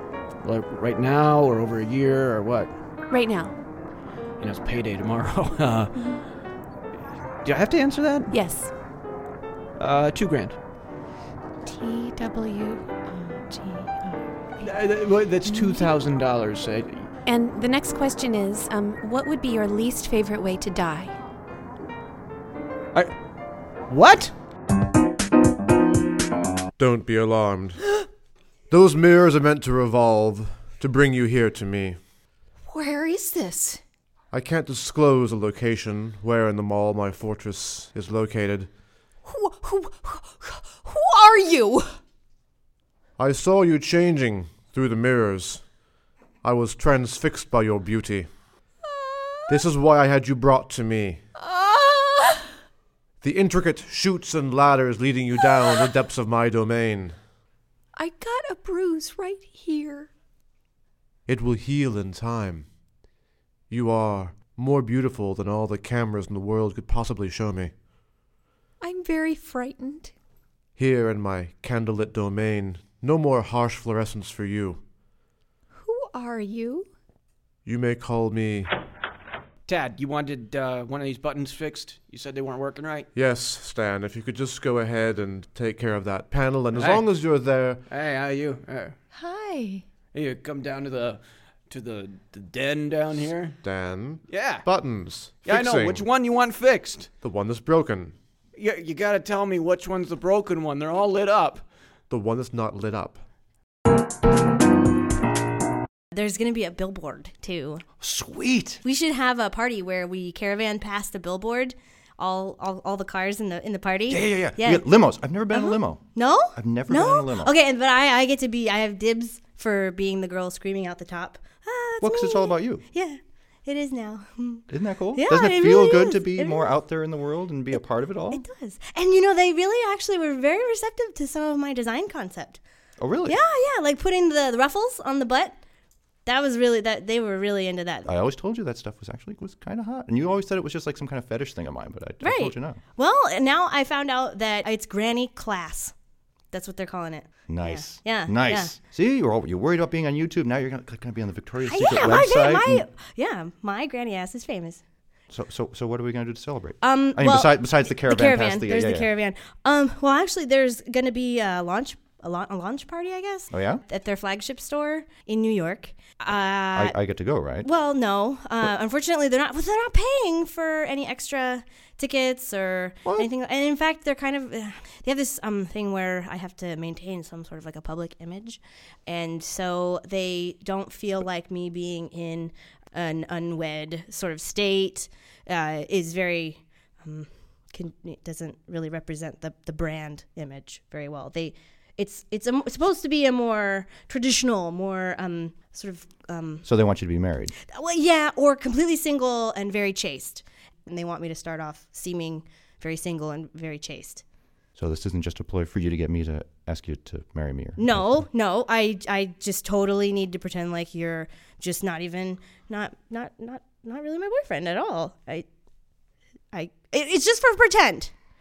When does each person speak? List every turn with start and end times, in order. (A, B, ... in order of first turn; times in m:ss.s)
0:00.4-0:02.7 A
0:03.1-0:03.5 B
0:04.4-0:06.1 A
0:07.4-0:08.3 A
0:08.3-0:08.7 B
0:09.8-0:10.6 A
0:11.6-0:14.6 B
0:14.6-0:17.1 A
0:15.4-0:15.9 B
0:17.2-0:21.1 B
0:23.9-0:24.3 A
0:26.8-0:27.8 C
0:28.7-0:32.0 C
0:32.6-0:33.8 D
0:34.3-0:38.7 C
0:39.2-0:41.9 D
0:43.2-0:45.6 C
0:46.4-0:48.3 C
0:48.8-0:49.6 D
0:49.5-0:51.2 C
0:51.4-0:52.5 D
0:53.2-0:57.2 C
0:58.0-1:00.1 D
1:01.3-1:02.7 C
1:03.7-1:07.7 C
1:08.8-1:10.1 D
1:10.8-1:14.8 C
1:15.7-1:16.9 D
1:17.6-1:18.7 C
1:19.7-1:23.1 A
1:23.1-1:27.8 C
1:26.7-1:27.0 A
1:27.9-1:28.9 A
1:29.1-1:29.8 D
1:30.1-1:33.6 A
1:33.6-1:36.0 C
1:34.3-1:34.6 A
1:35.4-1:37.1 A
1:37.2-1:38.1 C
1:38.6-1:41.6 A
1:42.1-1:43.2 C
1:46.1-1:47.8 E
1:48.0-1:48.8 F
1:48.8-1:54.8 E
1:54.1-1:57.5 F
1:55.5-2:06.8 E
2:02.0-2:02.8 F
2:04.7-2:08.4 F
2:08.3-2:12.6 E
2:13.0-2:13.4 F
2:13.2-2:15.6 E
2:16.2-2:18.1 E
2:18.0-2:22.8 F
2:22.2-2:25.9 E
2:26.5-2:28.8 E
2:27.5-2:32.8 F
2:31.6-2:34.8 E
2:35.3-2:39.1 F
2:36.8-2:47.0 E
2:43.5-2:43.8 F
2:46.7-2:47.7 F
2:47.6-3:16.6 E
3:16.6-3:17.5 F
3:17.6-3:24.2 E
3:24.8-3:28.2 F
3:27.8-3:35.5 E
3:36.5-3:38.1 E